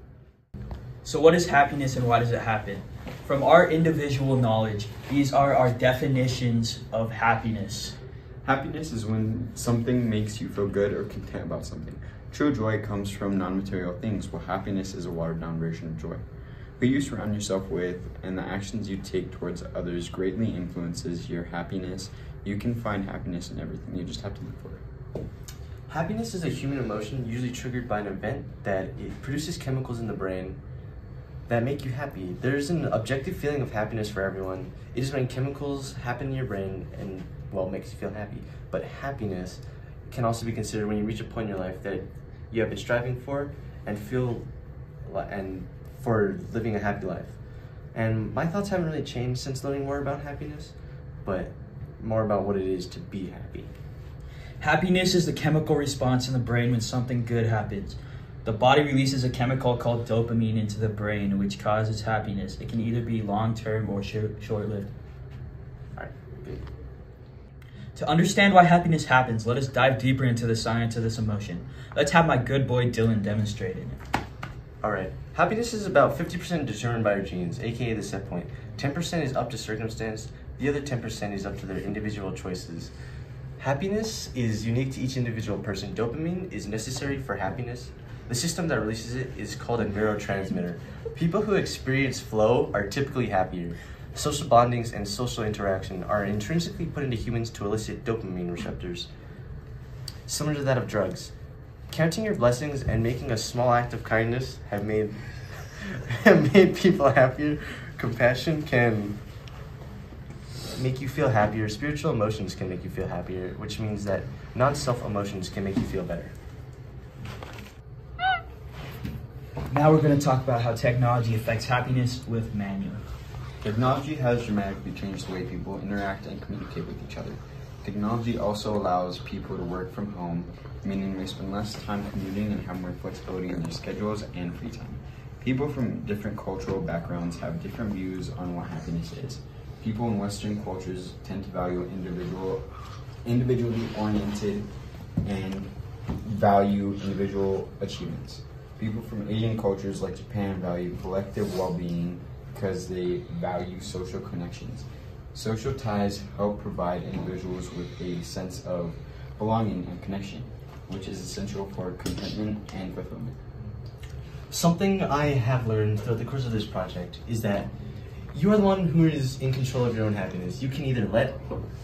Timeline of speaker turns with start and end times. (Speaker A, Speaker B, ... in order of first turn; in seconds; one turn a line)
Speaker A: 1.0-8.0
Speaker B: 8.4-16.2
Speaker B: 16.8-24.8
Speaker C: 25.9-30.6
Speaker C: 31.5-44.5
Speaker C: 45.0-47.4
Speaker C: 47.9-53.7
Speaker A: 54.6-64.9
Speaker C: 65.9-66.7
Speaker A: 67.9-74.0
Speaker C: 74.8-82.9
Speaker C: 83.6-99.1
Speaker C: 100.3-101.3
Speaker C: 101.9-109.2
Speaker C: 110.7-116.3
Speaker A: 119.7-123.0
Speaker B: 123.6-142.7
Speaker B: 143.2-144.7
Speaker B: 145.2-163.3
Speaker C: 164.5-167.7
Speaker C: 168.3-171.4